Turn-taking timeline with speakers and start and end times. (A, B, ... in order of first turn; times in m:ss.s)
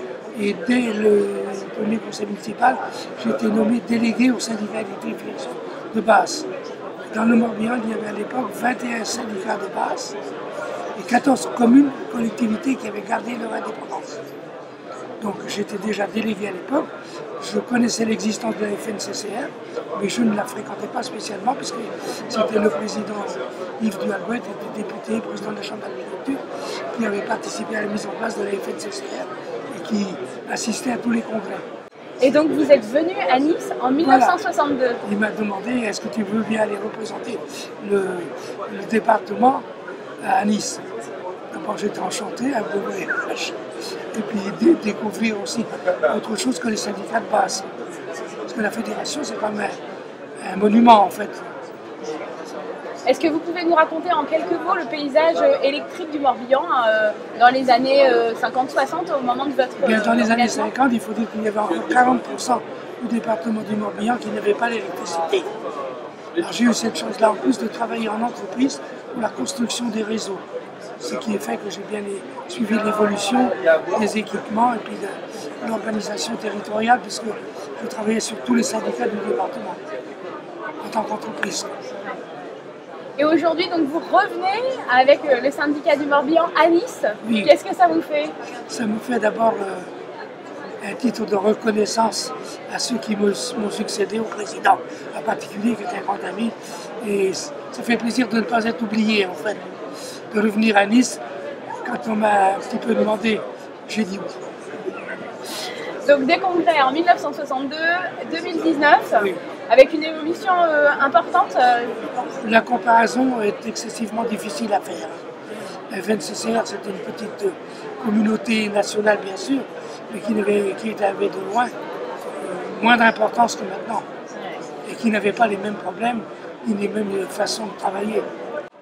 0:00.3-0:06.5 A
0:07.1-0:10.2 A
0:11.0-0:14.2 A
0:15.2-0:31.6 A
0:32.2-0:35.0 B
0:34.0-0:34.4 A
0:35.0-0:39.7 A
0:40.2-0:40.8 A
0:41.5-0:43.6 A
0:44.1-0:47.7 A
0:48.5-0:49.8 A
0:50.4-0:51.4 A
0:53.0-1:00.7 B
0:59.8-1:05.5 A
1:06.4-1:10.4 A
1:11.0-1:19.8 A
1:20.8-1:21.7 A
1:23.2-1:28.4 B
1:27.2-1:27.5 A
1:28.7-1:29.9 A
1:30.8-1:39.6 A
1:40.3-1:41.2 A
1:41.8-1:44.4 A
1:46.0-1:52.4 B
1:52.4-1:55.2 A
1:55.9-2:01.7 A
2:02.4-2:04.0 A
2:04.8-2:08.3 A